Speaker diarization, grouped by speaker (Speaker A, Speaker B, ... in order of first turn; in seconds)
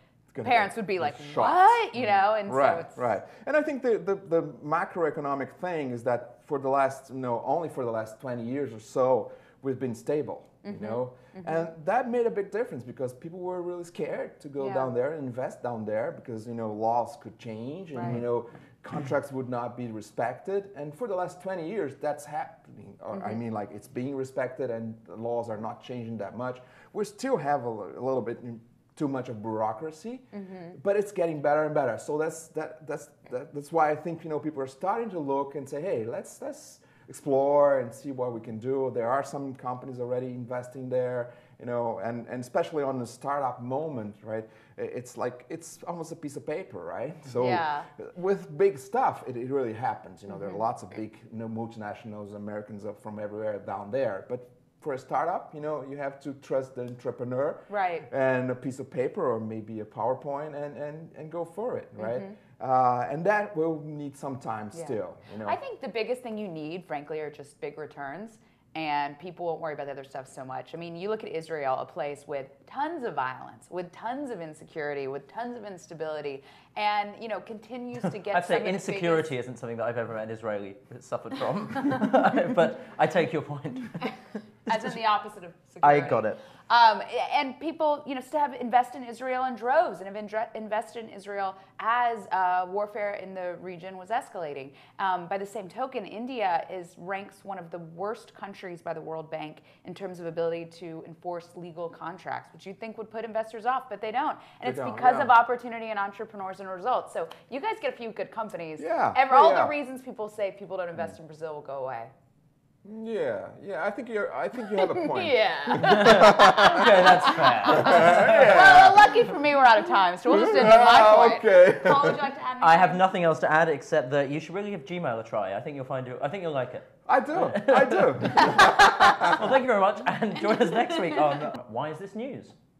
Speaker A: 0.3-65.6, 104.6-105.3, 108.8-109.7, 112.8-117.1, 117.6-119.2, 120.3-122.3, 127.0-129.4
Speaker B: 0.4-3.1, 10.6-11.7, 14.6-14.9, 17.9-18.2, 23.1-23.4, 30.3-30.7, 47.4-47.9, 50.3-50.6, 57.7-58.1, 62.0-62.4, 64.7-79.3, 84.7-112.1, 114.7-123.0, 128.3-129.5, 130.4-131.4
Speaker C: 78.0-84.2, 85.8-86.4, 115.8-118.7, 122.6-132.5